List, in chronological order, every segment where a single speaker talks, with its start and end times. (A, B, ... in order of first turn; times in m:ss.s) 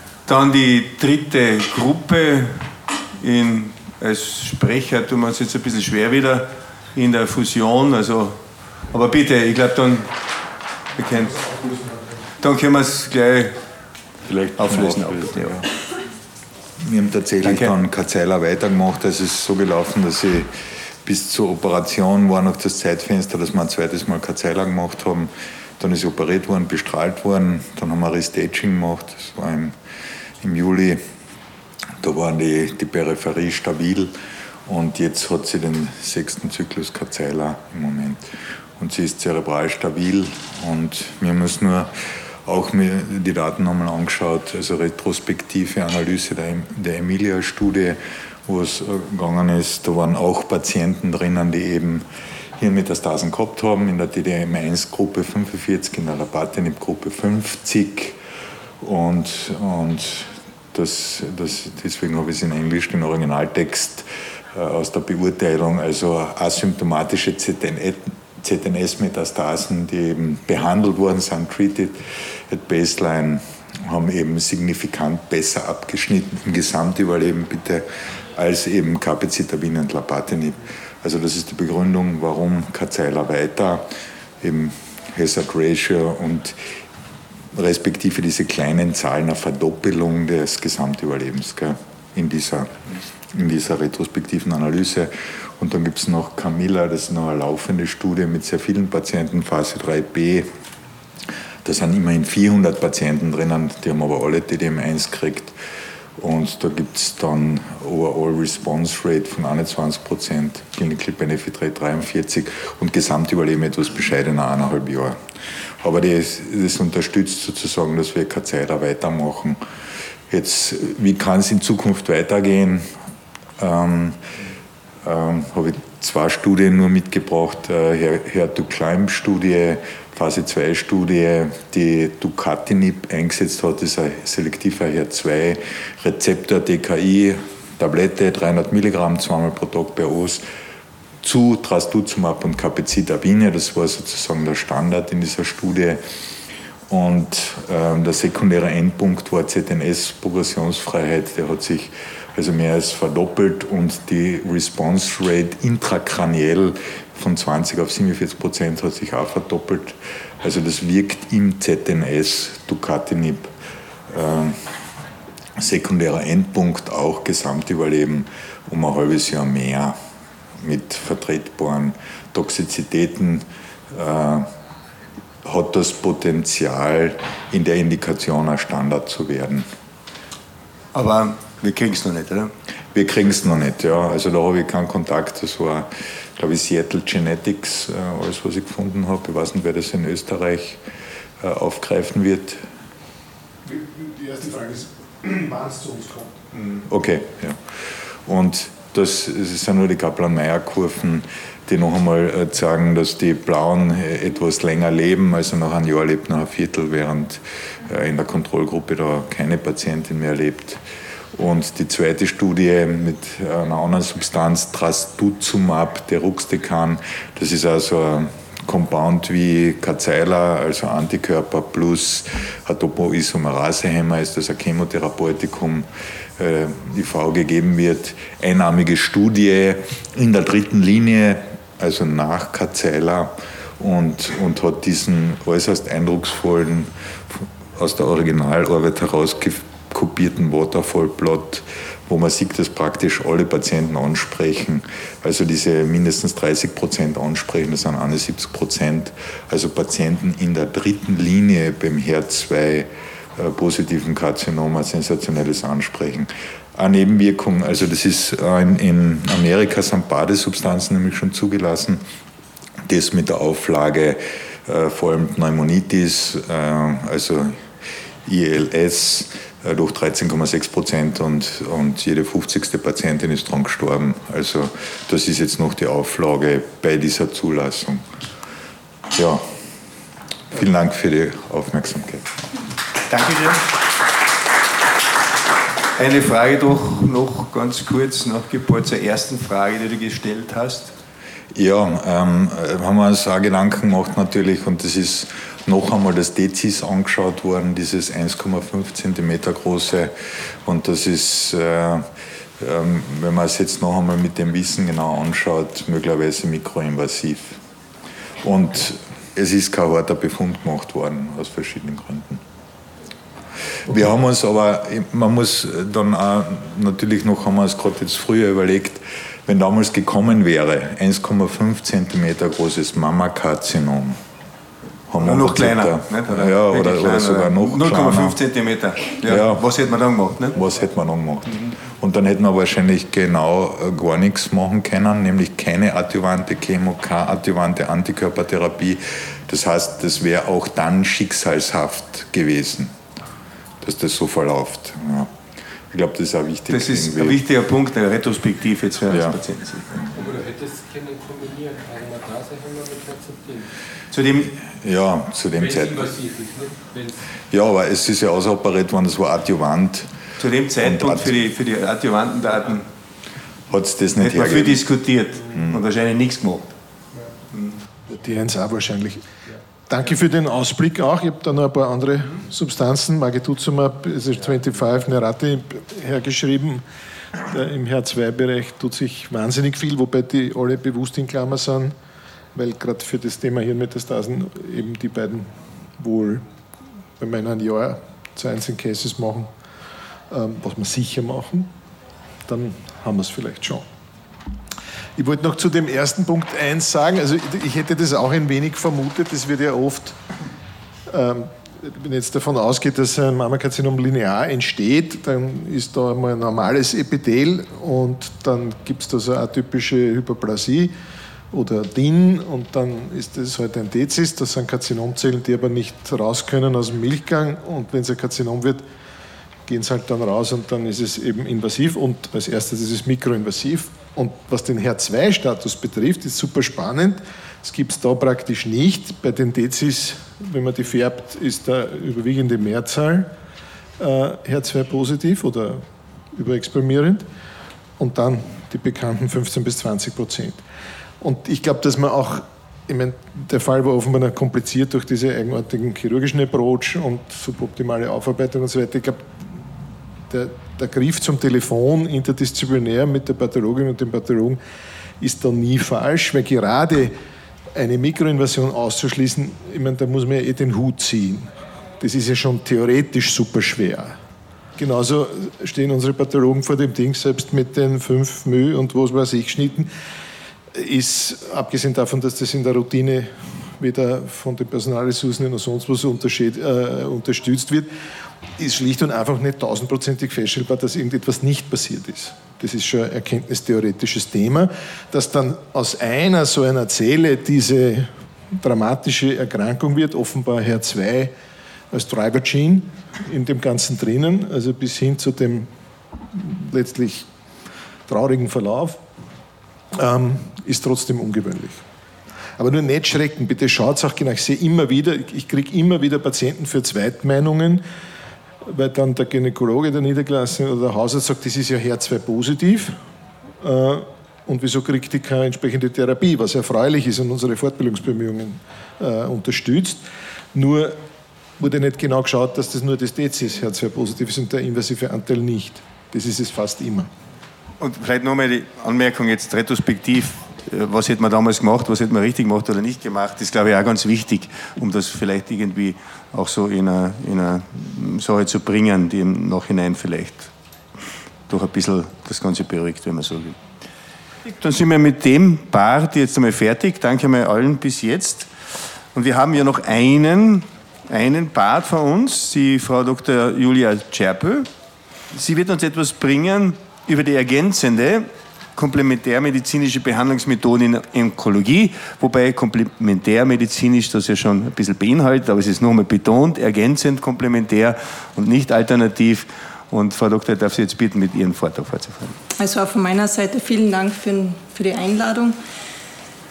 0:00.3-0:08.4 A
0:08.9-0:10.1 A
0:11.0-0:11.6 A
0:12.4-0:13.6 A
0:14.3-0:15.6 B
0:14.6-0:15.6 A
0:16.8-0:20.5 B
0:17.4-0:17.7 A
0:21.0-0:29.8 B
0:30.4-0:31.0 B
0:32.0-0:34.1 B
0:34.7-0:38.3 B
0:38.8-0:52.0 B
0:52.6-0:58.2 B
0:58.8-1:23.9 B
1:24.4-1:26.6 B
1:27.5-1:32.8 B
1:33.3-1:40.5 B
1:41.6-1:45.6 B
1:46.2-1:55.2 B
1:55.8-1:59.6 B
2:00.3-2:02.9 B
2:03.6-2:04.2 B
2:05.0-2:20.4 B
2:21.2-2:26.0 B
2:26.9-2:43.5 B
2:44.1-2:44.7 B
2:45.6-2:50.0 B
2:50.6-2:54.5 B
2:55.4-2:59.7 B
3:00.9-3:02.5 A
3:02.9-3:10.8 B
3:11.4-3:12.6 B
3:13.6-3:16.4 C
3:16.8-3:30.8 B
3:31.4-3:45.9 B
3:46.4-4:22.0 B
4:22.9-4:27.7 B
4:28.2-4:38.0 B
4:39.1-4:39.4 B
4:40.5-4:42.3 B
4:43.1-4:43.7 A
4:46.0-4:50.9 A
4:51.6-5:00.1 B
5:00.6-5:02.1 B
5:02.6-5:07.6 B
5:08.4-5:12.4 B
5:13.9-5:24.2 B
5:25.1-5:28.4 B
5:25.2-5:30.6 A
5:29.2-5:29.6 B
5:30.6-5:42.9 B
5:43.8-5:45.3 B
5:45.9-5:47.4 B
5:46.7-5:49.9 A
5:49.1-5:49.4 B
5:50.1-5:53.7 D
5:54.1-5:54.5 A
5:54.6-5:56.1 B
5:55.6-5:57.2 D
5:57.5-6:00.1 B
6:00.4-6:02.9 A
6:00.8-6:01.3 B
6:03.7-6:04.8 B
6:04.2-6:06.7 A
6:05.5-6:05.8 B
6:07.5-6:07.8 A
6:08.1-6:09.2 C
6:09.9-6:16.8 C
6:17.4-6:22.0 C
6:22.5-6:26.5 C
6:27.2-6:29.5 C
6:30.3-6:31.7 C
6:32.5-6:33.9 C
6:35.2-6:40.2 C
6:41.1-6:50.9 C
6:51.5-6:58.9 C
6:59.7-7:13.3 C
7:14.0-7:17.3 C
7:18.0-7:20.6 C
7:21.2-7:29.3 C
7:30.3-7:34.6 C
7:35.2-7:37.2 C
7:37.8-7:44.2 C
7:44.8-7:49.9 C
7:50.7-7:57.9 C
7:58.6-8:11.3 C
8:11.9-8:15.7 C
8:16.3-8:17.3 C
8:18.1-8:19.0 C
8:19.9-8:21.8 C
8:22.6-8:27.8 C
8:28.6-8:33.0 C
8:33.6-8:40.0 C
8:40.5-8:41.0 C
8:41.6-8:47.1 C
8:47.8-9:00.5 A
9:01.5-9:03.6 A
9:04.5-9:08.5 A
9:09.1-9:14.7 A
9:15.3-9:32.4 A
9:32.6-9:35.6 E